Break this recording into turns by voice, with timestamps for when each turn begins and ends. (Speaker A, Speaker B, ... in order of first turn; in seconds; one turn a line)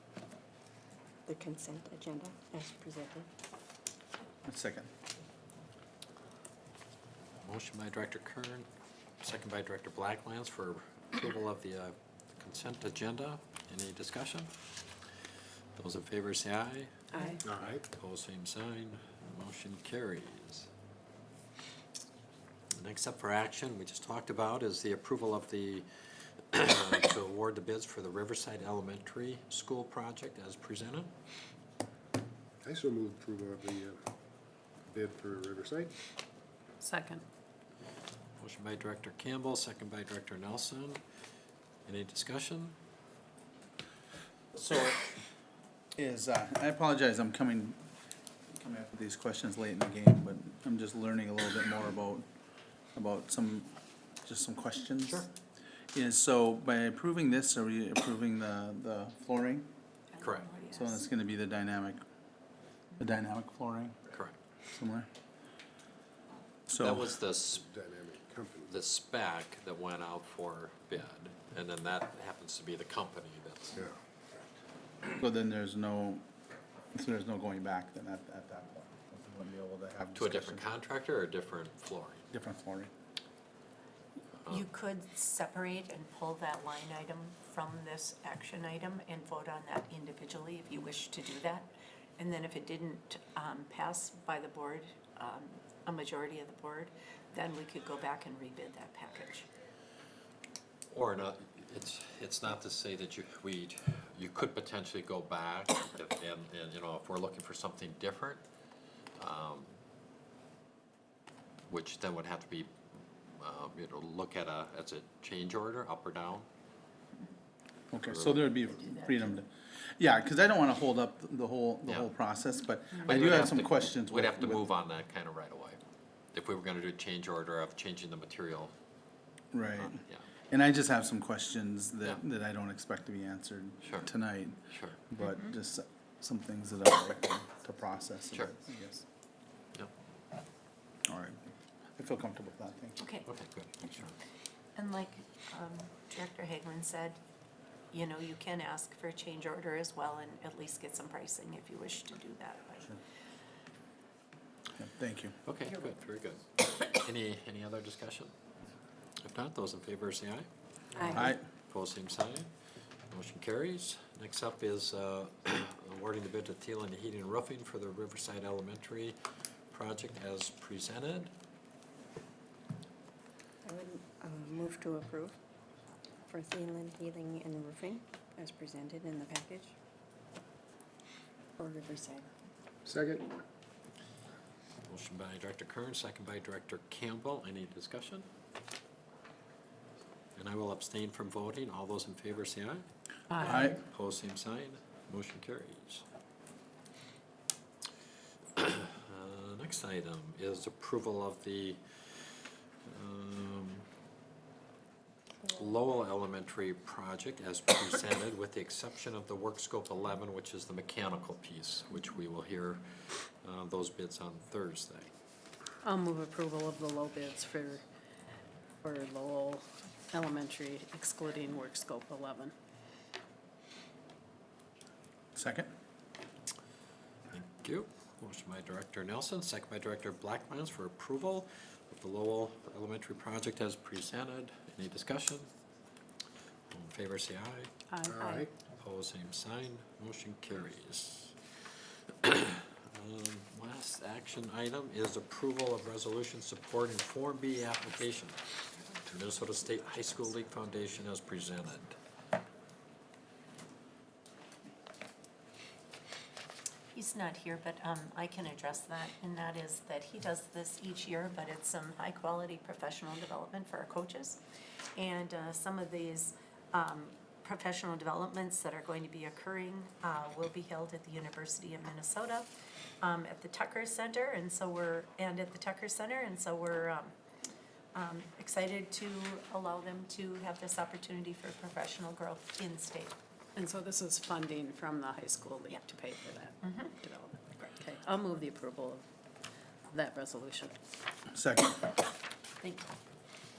Speaker A: 1.3-3.3
Speaker B: 4.5-4.9
Speaker C: 7.4-8.7
Speaker C: 9.2-14.9
Speaker C: 15.8-17.0
Speaker A: 17.1-17.4
Speaker D: 17.4-17.8
Speaker C: 17.7-20.7
Speaker C: 22.7-31.1
Speaker D: 32.6-34.0
Speaker D: 34.8-35.9
Speaker E: 36.8-37.2
Speaker C: 38.4-41.0
Speaker C: 41.9-42.8
Speaker B: 44.5-45.1
Speaker B: 46.0-47.8
Speaker B: 48.5-52.2
Speaker B: 52.9-53.7
Speaker B: 54.2-55.3
Speaker B: 55.9-59.7
Speaker F: 60.1-61.0
Speaker C: 60.2-60.5
Speaker B: 60.7-62.0
Speaker B: 63.0-64.0
Speaker C: 64.1-64.4
Speaker B: 64.7-65.1
Speaker B: 66.7-67.1
Speaker C: 66.8-67.6
Speaker D: 67.5-68.8
Speaker C: 68.7-73.8
Speaker B: 75.1-76.2
Speaker B: 76.9-80.7
Speaker C: 80.2-82.2
Speaker B: 82.3-82.9
Speaker F: 84.5-99.5
Speaker C: 100.9-108.4
Speaker C: 109.2-109.7
Speaker C: 111.7-112.7
Speaker C: 113.4-116.5
Speaker B: 117.9-124.6
Speaker C: 117.9-118.6
Speaker C: 121.8-122.1
Speaker C: 123.0-125.8
Speaker C: 126.3-128.7
Speaker B: 129.5-139.0
Speaker C: 129.8-130.3
Speaker C: 133.8-134.1
Speaker C: 134.7-135.0
Speaker B: 141.1-143.0
Speaker F: 143.0-143.3
Speaker C: 143.2-144.2
Speaker F: 144.8-147.2
Speaker F: 147.9-152.9
Speaker B: 154.8-155.3
Speaker C: 155.4-158.3
Speaker C: 159.2-160.5
Speaker A: 160.9-161.2
Speaker C: 161.0-162.5
Speaker B: 161.2-161.4
Speaker C: 163.1-169.2
Speaker C: 169.7-171.3
Speaker A: 173.6-175.3
Speaker A: 176.3-179.7
Speaker A: 181.6-182.3
Speaker D: 182.8-183.4
Speaker C: 184.8-188.3
Speaker C: 190.3-196.0
Speaker E: 193.3-193.7
Speaker B: 193.4-193.8
Speaker C: 198.6-203.9
Speaker C: 205.5-215.1
Speaker E: 215.8-217.8
Speaker E: 218.8-222.5
Speaker B: 225.3-225.7
Speaker C: 227.3-235.5
Speaker C: 236.7-237.7
Speaker E: 237.9-238.5
Speaker D: 238.1-238.5
Speaker C: 238.8-252.0
Speaker F: 256.9-264.4
Speaker F: 265.0-277.1
Speaker F: 277.9-283.2
Speaker E: 283.6-289.0
Speaker F: 286.6-286.9
Speaker E: 289.9-290.8
Speaker B: 291.3-291.8
Speaker F: 292.6-292.9